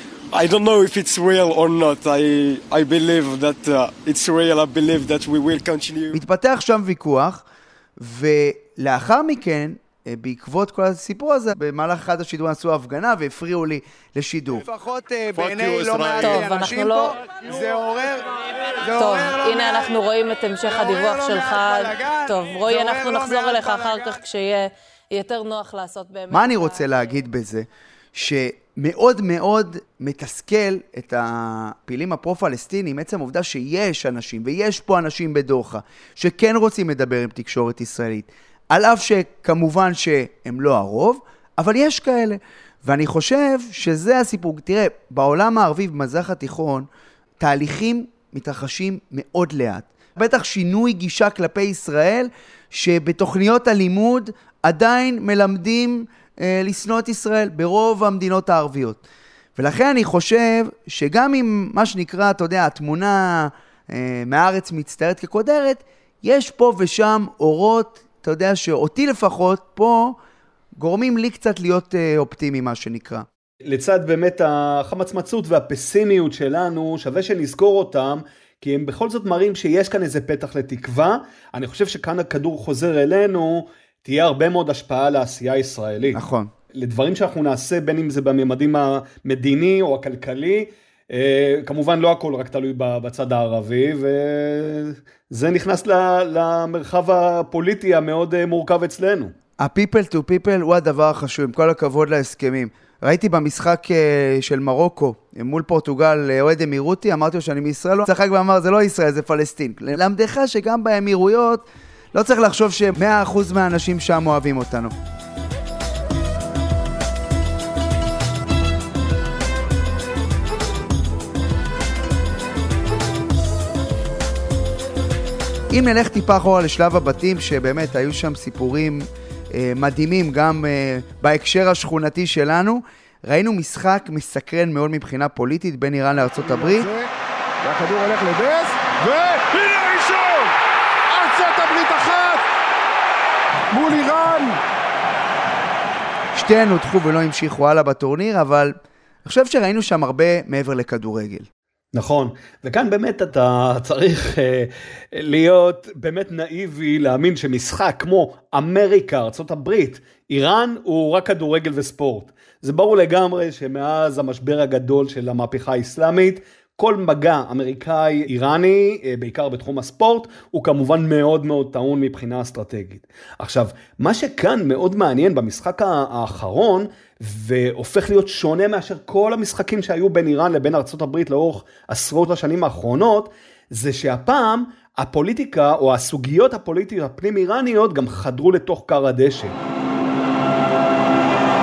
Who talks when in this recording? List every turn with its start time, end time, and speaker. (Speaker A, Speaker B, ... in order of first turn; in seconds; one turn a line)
Speaker A: 0.3-6.2
Speaker B: 6.1-7.4
Speaker B: 8.0-18.3
Speaker C: 16.1-17.1
Speaker B: 18.8-20.0
Speaker C: 19.0-26.8
Speaker B: 20.6-24.2
Speaker B: 26.3-46.9
Speaker B: 47.4-59.0
Speaker B: 59.6-70.2
Speaker B: 70.8-73.2
Speaker D: 73.7-86.2
Speaker B: 86.1-86.5
Speaker D: 86.7-99.3
Speaker B: 99.6-114.9
Speaker B: 125.7-136.9
Speaker E: 136.4-137.1
Speaker E: 137.6-140.5
Speaker E: 141.1-142.5
Speaker E: 143.7-144.6
Speaker B: 146.3-151.5
Speaker D: 151.9-189.6